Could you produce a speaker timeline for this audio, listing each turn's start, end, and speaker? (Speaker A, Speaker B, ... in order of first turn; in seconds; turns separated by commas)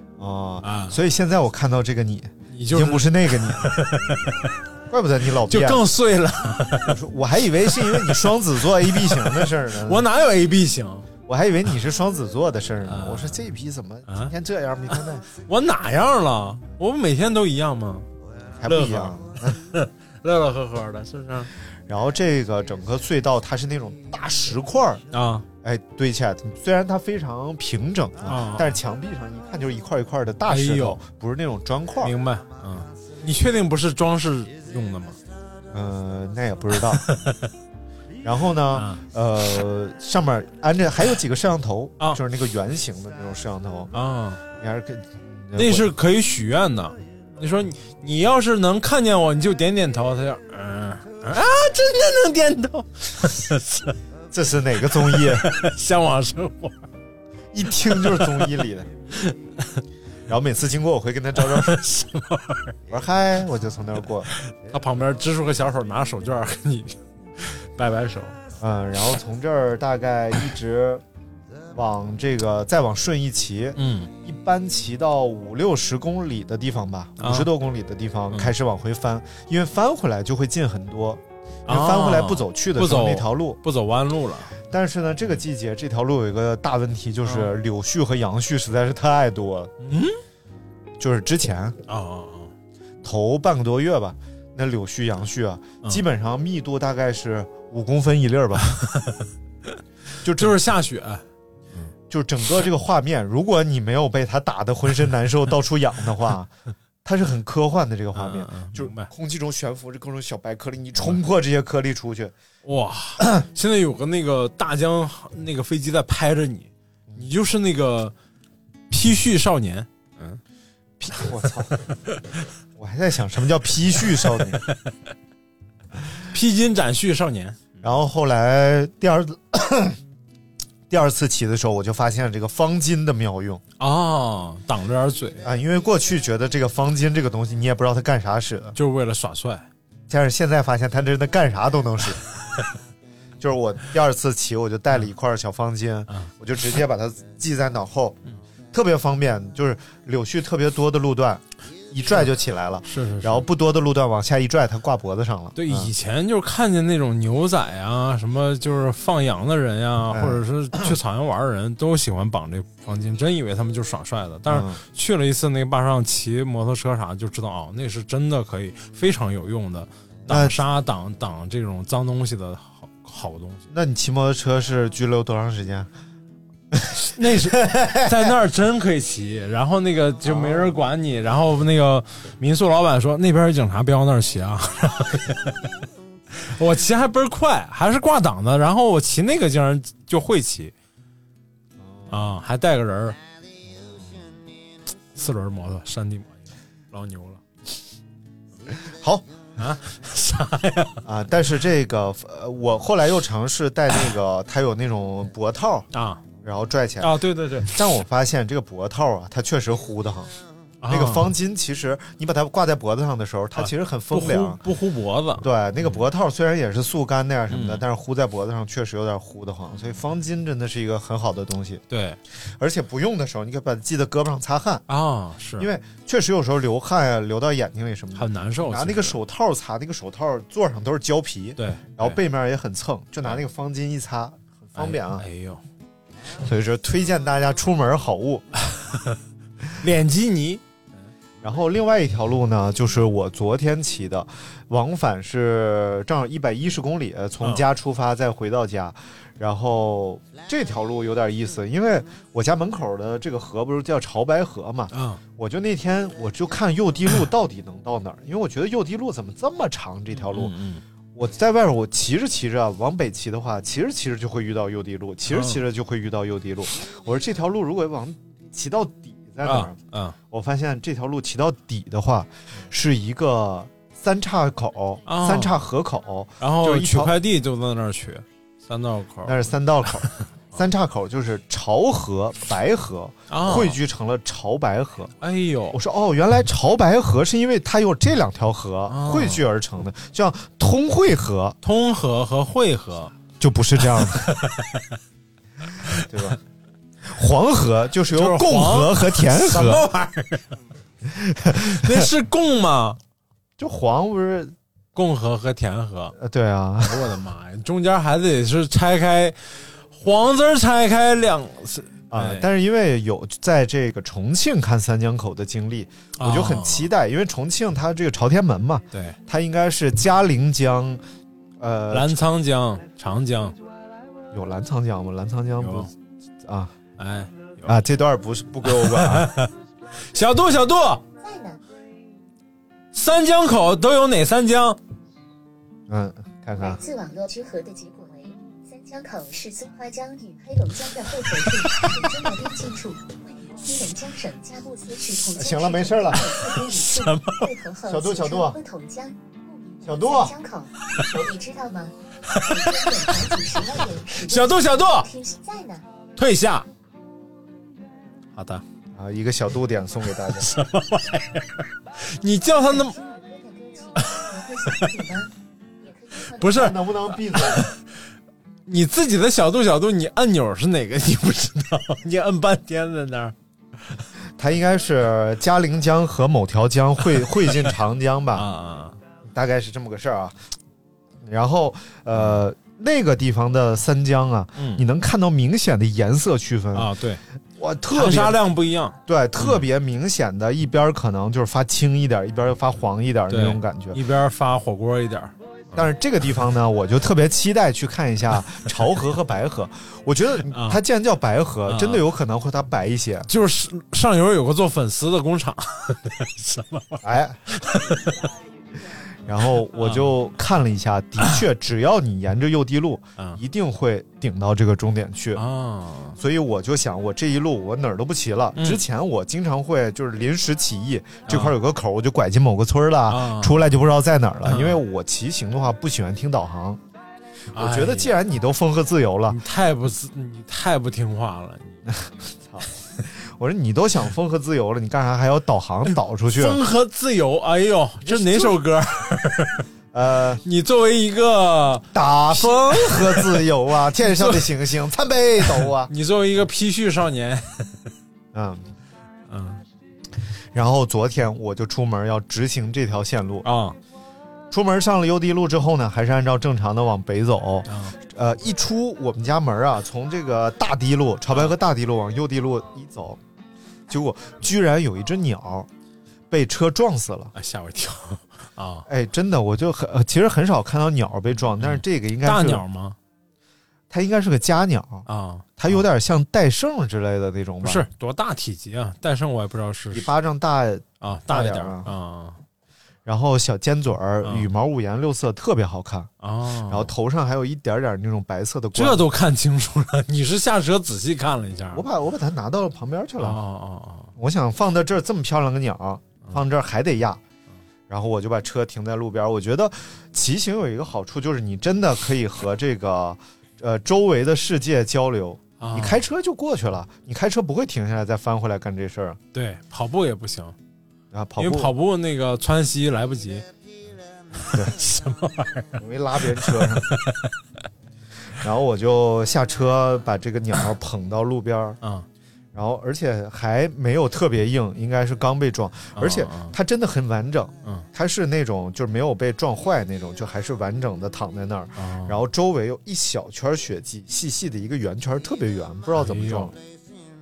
Speaker A: 0.2-3.8, Speaker B: 0.6-1.0, Speaker B: 2.5-4.5, Speaker A: 4.9-5.8, Speaker B: 5.5-7.0, Speaker A: 6.8-10.1, Speaker B: 7.7-11.1, Speaker A: 11.3-15.2, Speaker B: 12.8-13.4, Speaker B: 14.1-14.3, Speaker B: 14.9-18.1, Speaker A: 18.6-19.6, Speaker B: 18.7-21.5, Speaker A: 21.9-25.0, Speaker B: 25.1-25.4, Speaker A: 25.6-32.1, Speaker B: 28.2-28.7, Speaker B: 30.5-31.0, Speaker B: 32.0-35.2, Speaker A: 35.7-37.0, Speaker B: 37.0-37.5, Speaker A: 38.2-43.9, Speaker B: 38.7-39.0, Speaker B: 43.9-44.4, Speaker A: 44.6-45.9, Speaker B: 45.5-54.0, Speaker A: 54.3-55.5, Speaker B: 55.1-56.9, Speaker A: 57.5-58.9, Speaker B: 58.0-58.5, Speaker B: 59.2-59.8, Speaker A: 60.3-61.8, Speaker B: 61.4-62.8, Speaker A: 62.9-64.3, Speaker B: 64.5-68.3, Speaker A: 68.6-71.0, Speaker A: 71.7-83.6, Speaker B: 73.8-74.1, Speaker B: 77.2-77.5, Speaker B: 81.7-84.5, Speaker A: 84.7-89.7, Speaker B: 87.3-87.5, Speaker B: 89.8-90.2, Speaker A: 91.0-91.8, Speaker B: 91.9-92.5, Speaker A: 93.0-98.8, Speaker B: 98.7-99.3, Speaker A: 100.2-100.6, Speaker B: 100.4-101.2, Speaker A: 102.1-106.5, Speaker A: 107.0-112.3, Speaker B: 108.1-109.1, Speaker B: 112.6-118.1, Speaker B: 118.9-120.4, Speaker A: 121.0-121.8, Speaker A: 122.8-124.6, Speaker B: 126.3-127.7, Speaker A: 127.8-130.0, Speaker A: 130.9-133.6, Speaker B: 133.8-135.4, Speaker A: 135.4-138.8, Speaker B: 138.8-139.7, Speaker A: 140.1-142.2, Speaker A: 143.4-148.2, Speaker A: 148.7-155.9, Speaker B: 152.9-153.5, Speaker B: 155.6-173.7, Speaker A: 160.1-160.9, Speaker A: 164.5-164.8, Speaker A: 170.3-170.6, Speaker A: 173.7-175.9, Speaker B: 176.9-185.7, Speaker A: 177.7-178.2, Speaker A: 180.2-180.8, Speaker B: 186.3-190.7, Speaker A: 191.8-192.1, Speaker B: 192.1-193.2, Speaker B: 195.1-197.4, Speaker A: 198.7-199.3, Speaker B: 199.6-201.0, Speaker A: 201.1-205.9, Speaker B: 205.9-206.2, Speaker A: 206.4-210.3, Speaker B: 207.0-207.8, Speaker B: 210.8-211.3, Speaker A: 210.9-214.6, Speaker B: 213.6-216.0, Speaker A: 215.4-221.8, Speaker B: 217.5-217.8, Speaker B: 221.9-222.2, Speaker A: 222.4-224.8, Speaker B: 224.9-225.7, Speaker A: 225.6-235.2, Speaker B: 228.2-229.2, Speaker B: 231.6-232.2, Speaker B: 234.8-235.6, Speaker A: 236.4-238.5, Speaker B: 238.7-239.1, Speaker B: 239.8-240.6, Speaker A: 241.4-260.5, Speaker B: 254.9-255.2, Speaker B: 260.2-260.8, Speaker A: 261.1-269.8, Speaker B: 265.3-265.6, Speaker B: 269.4-270.2, Speaker A: 270.3-277.2, Speaker B: 275.1-275.6, Speaker B: 276.4-279.4, Speaker A: 279.2-285.1, Speaker B: 283.3-283.8, Speaker B: 285.2-285.8, Speaker A: 285.7-291.6, Speaker B: 288.9-289.4, Speaker B: 291.6-293.1, Speaker A: 293.4-294.3, Speaker B: 293.9-295.0, Speaker B: 295.8-296.3, Speaker A: 295.9-296.4, Speaker A: 297.0-299.9, Speaker B: 298.1-300.6, Speaker A: 301.1-302.1, Speaker B: 301.6-303.0, Speaker A: 303.6-304.5, Speaker B: 304.9-306.2, Speaker A: 306.2-307.2, Speaker B: 306.8-309.4, Speaker B: 309.9-312.5, Speaker A: 312.1-321.0, Speaker B: 316.2-316.9, Speaker B: 318.9-319.2, Speaker A: 321.6-322.2, Speaker B: 321.9-323.6, Speaker A: 324.3-325.9, Speaker B: 325.6-325.9, Speaker A: 326.5-326.7, Speaker B: 327.0-327.8, Speaker A: 327.6-329.3, Speaker B: 328.6-329.5, Speaker B: 330.1-331.0, Speaker C: 331.2-331.6, Speaker B: 332.9-334.8, Speaker A: 335.9-336.8, Speaker C: 336.6-355.8, Speaker A: 345.3-346.3, Speaker B: 346.1-347.5, Speaker A: 347.9-348.6, Speaker A: 349.8-350.4, Speaker B: 352.3-353.4, Speaker B: 354.1-355.1, Speaker B: 356.2-356.7, Speaker B: 358.4-358.6, Speaker A: 359.0-360.5, Speaker B: 360.3-363.0, Speaker C: 362.5-365.3, Speaker B: 364.0-365.0, Speaker C: 365.8-366.8, Speaker B: 366.3-367.8, Speaker A: 366.5-367.7, Speaker B: 368.7-373.4, Speaker A: 374.4-378.5, Speaker B: 378.4-379.0, Speaker A: 379.2-380.4, Speaker A: 381.2-386.9, Speaker B: 384.6-384.9, Speaker B: 386.7-387.2, Speaker A: 387.6-388.4, Speaker B: 387.9-389.7, Speaker A: 389.1-394.0, Speaker B: 393.3-395.9, Speaker A: 395.8-403.3, Speaker B: 400.5-400.8, Speaker B: 401.7-402.1, Speaker B: 403.3-408.3, Speaker A: 407.0-407.4, Speaker A: 409.3-415.4, Speaker B: 409.8-410.1, Speaker B: 415.4-416.2, Speaker A: 416.2-426.8, Speaker B: 418.6-418.8, Speaker B: 421.3-421.6, Speaker B: 423.1-423.6, Speaker B: 424.5-424.8, Speaker B: 427.5-428.1, Speaker A: 427.6-429.4, Speaker B: 429.3-431.9, Speaker A: 431.9-436.6, Speaker B: 436.3-439.6, Speaker A: 438.0-438.6, Speaker A: 439.9-440.4, Speaker B: 440.4-444.5, Speaker A: 441.9-445.9, Speaker B: 445.4-447.8, Speaker A: 448.3-448.6, Speaker B: 449.3-449.6, Speaker A: 450.5-453.5, Speaker B: 453.4-453.8, Speaker A: 454.5-463.2, Speaker B: 457.7-458.0, Speaker A: 463.9-465.7, Speaker A: 466.3-467.3, Speaker B: 467.4-468.9, Speaker A: 468.9-472.6, Speaker B: 471.6-473.0, Speaker A: 473.9-475.1, Speaker B: 475.1-475.8, Speaker A: 475.6-477.9, Speaker B: 477.6-480.1, Speaker A: 479.9-481.9, Speaker B: 481.0-482.4, Speaker A: 483.1-486.1, Speaker B: 484.2-484.5, Speaker B: 486.2-486.9, Speaker A: 486.7-489.1, Speaker B: 488.8-491.9, Speaker A: 491.7-493.4, Speaker B: 493.2-494.1, Speaker A: 494.2-497.2, Speaker A: 497.9-509.2, Speaker B: 505.6-506.0, Speaker B: 509.3-510.6, Speaker A: 511.1-511.7, Speaker B: 511.4-513.5, Speaker B: 514.4-515.8, Speaker A: 515.8-516.9, Speaker B: 516.4-517.3, Speaker A: 518.4-521.8, Speaker A: 522.5-536.6, Speaker B: 526.0-526.6, Speaker B: 531.8-532.2, Speaker B: 536.0-536.5